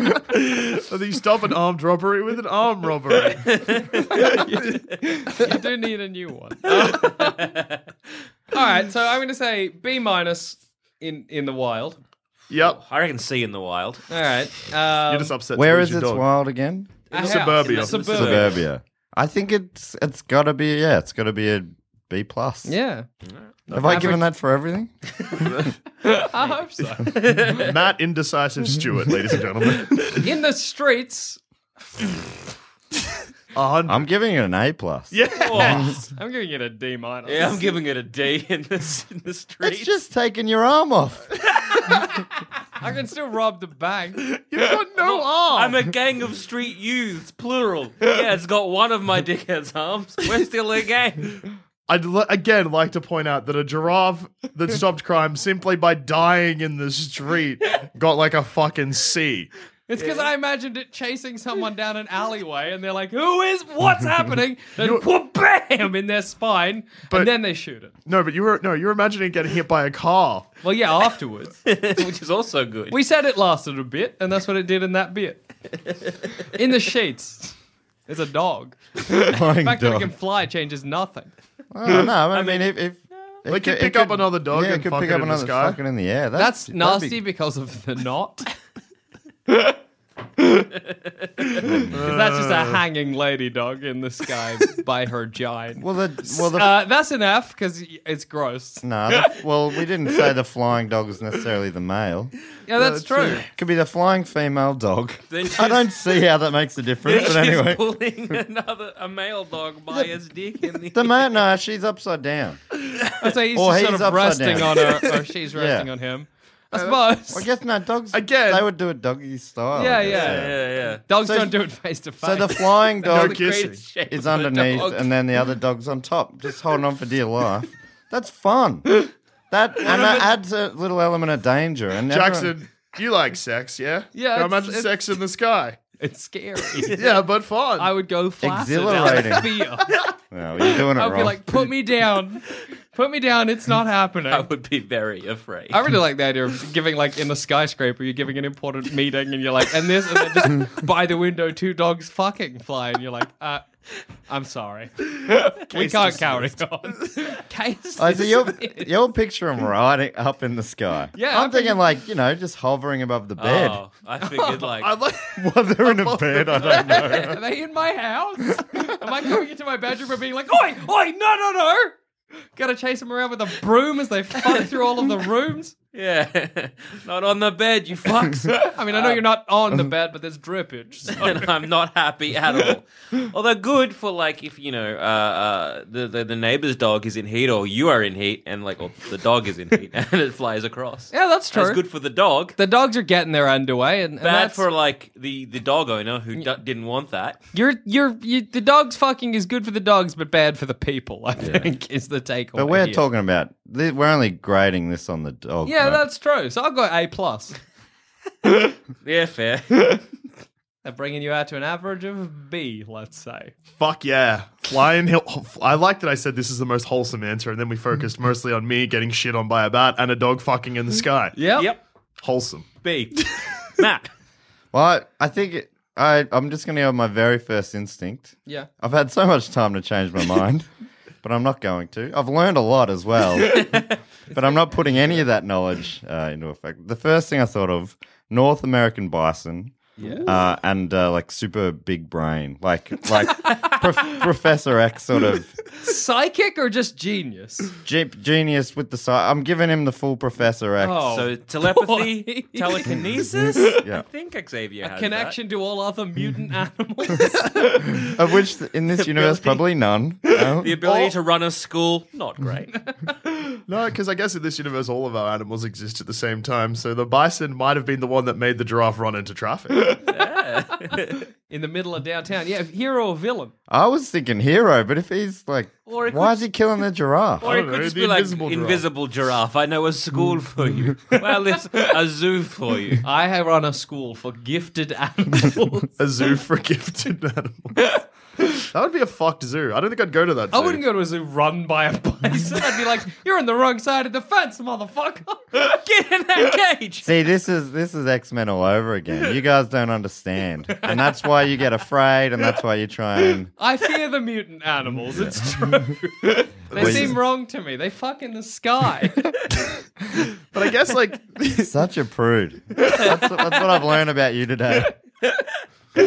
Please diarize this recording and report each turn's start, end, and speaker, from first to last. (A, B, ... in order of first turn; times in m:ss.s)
0:00.4-0:03.6 A
0:03.3-0:04.4 B
0:04.1-0:07.5 C
0:06.7-0:07.8 B
0:08.5-0:12.0 C
0:12.5-0:12.8 A
0:12.6-0:14.0 B
0:14.1-0:15.4 C
0:15.1-0:16.3 A
0:15.6-0:17.1 D
0:17.1-0:18.6 C
0:17.1-0:18.6 B
0:17.1-0:18.1 A
0:18.0-0:22.7 D
0:22.6-0:23.1 C
0:23.7-0:24.1 A
0:23.7-0:24.9 D
0:23.8-0:24.2 C
0:26.0-0:27.2 C
0:27.1-0:27.7 B
0:27.5-0:30.3 A
0:30.2-0:31.4 C
0:33.5-0:34.0 A
0:33.9-0:35.9 D
0:35.1-0:35.9 A
0:35.4-0:35.9 B
0:35.5-0:37.7 C
0:37.3-0:39.9 B
0:39.6-0:41.3 D
0:42.8-0:44.2 C
0:44.4-0:45.8 A
0:45.0-0:51.4 B
0:51.9-0:59.5 A
0:59.9-1:07.9 C
1:00.0-1:00.3 B
1:04.8-1:05.0 A
1:08.1-1:10.5 A
1:10.6-1:11.6 C
1:11.7-1:13.0 B
1:12.9-1:15.4 C
1:16.6-1:17.6 C
1:18.1-1:21.3 C
1:19.1-1:20.1 D
1:21.7-1:27.2 D
1:22.3-1:22.7 B
1:23.5-1:25.8 A
1:26.3-1:28.5 C
1:31.7-1:32.0 D
1:31.9-1:32.8 A
1:32.0-1:38.8 C
1:35.8-1:36.8 D
1:38.8-1:42.3 D
1:42.7-1:43.4 C
1:42.8-1:43.4 A
1:43.5-1:48.4 D
1:45.3-1:46.0 B
1:47.0-1:51.4 B
1:50.9-1:52.6 D
1:53.1-1:57.5 C
1:53.4-1:55.9 D
1:56.7-1:57.0 A
1:57.3-2:01.6 D
1:58.1-1:58.7 A
1:59.7-2:00.5 C
2:00.1-2:01.0 B
2:01.1-2:02.8 C
2:02.2-2:12.5 D
2:03.0-2:03.8 A
2:03.0-2:05.1 B
2:12.1-2:15.8 A
2:14.1-2:15.0 C
2:16.0-2:17.0 C
2:16.9-2:17.9 A
2:17.8-2:19.9 C
2:18.4-2:19.5 D
2:20.3-2:21.6 D
2:20.6-2:24.5 C
2:24.3-2:25.8 B
2:25.7-2:33.7 C
2:34.3-2:38.9 C
2:35.7-2:36.6 A
2:38.0-2:43.8 D
2:41.2-2:41.9 C
2:43.4-2:44.9 B
2:44.2-2:44.7 C
2:44.8-2:46.9 A
2:45.4-2:47.4 D
2:46.8-2:47.1 B
2:46.9-2:52.0 C
2:52.6-2:55.8 C
2:55.9-2:59.2 B
2:58.5-3:01.5 C
3:01.1-3:12.6 B
3:11.1-3:11.8 C
3:12.6-3:14.6 C
3:14.2-3:17.4 B
3:17.5-3:23.0 C
3:21.4-3:21.7 D
3:22.6-3:26.0 D
3:25.6-3:27.6 C
3:29.0-3:30.0 B
3:30.8-3:33.5 C
3:33.8-3:41.4 A
3:41.4-3:41.7 C
3:42.2-3:42.7 A
3:42.8-3:44.1 B
3:44.7-3:50.7 D
3:51.2-4:05.6 D
3:53.6-3:53.9 B
3:54.3-3:55.2 C
4:00.0-4:00.3 C
4:00.0-4:00.3 B
4:03.4-4:03.8 B
4:05.8-4:07.7 C
4:07.8-4:11.2 D
4:10.8-4:12.9 C
4:11.1-4:15.4 B
4:13.6-4:14.0 D
4:14.8-4:17.9 C
4:18.0-4:20.8 D
4:19.0-4:19.6 B
4:20.4-4:22.8 B
4:22.9-4:23.2 C
4:23.7-4:30.0 A
4:30.1-4:31.3 B
4:31.5-4:33.5 C
4:33.7-4:37.5 D
4:35.9-4:36.4 B
4:37.4-4:38.9 A
4:37.4-4:43.0 B
4:43.0-4:45.9 C
4:46.0-4:47.9 A
4:48.7-4:50.8 A
4:50.5-4:55.4 C
4:55.5-4:57.1 B
4:57.0-5:03.5 D
5:03.6-5:09.3 C
5:05.1-5:05.9 D
5:06.7-5:07.1 A
5:06.8-5:07.2 D
5:10.5-5:11.7 A
5:11.6-5:14.9 D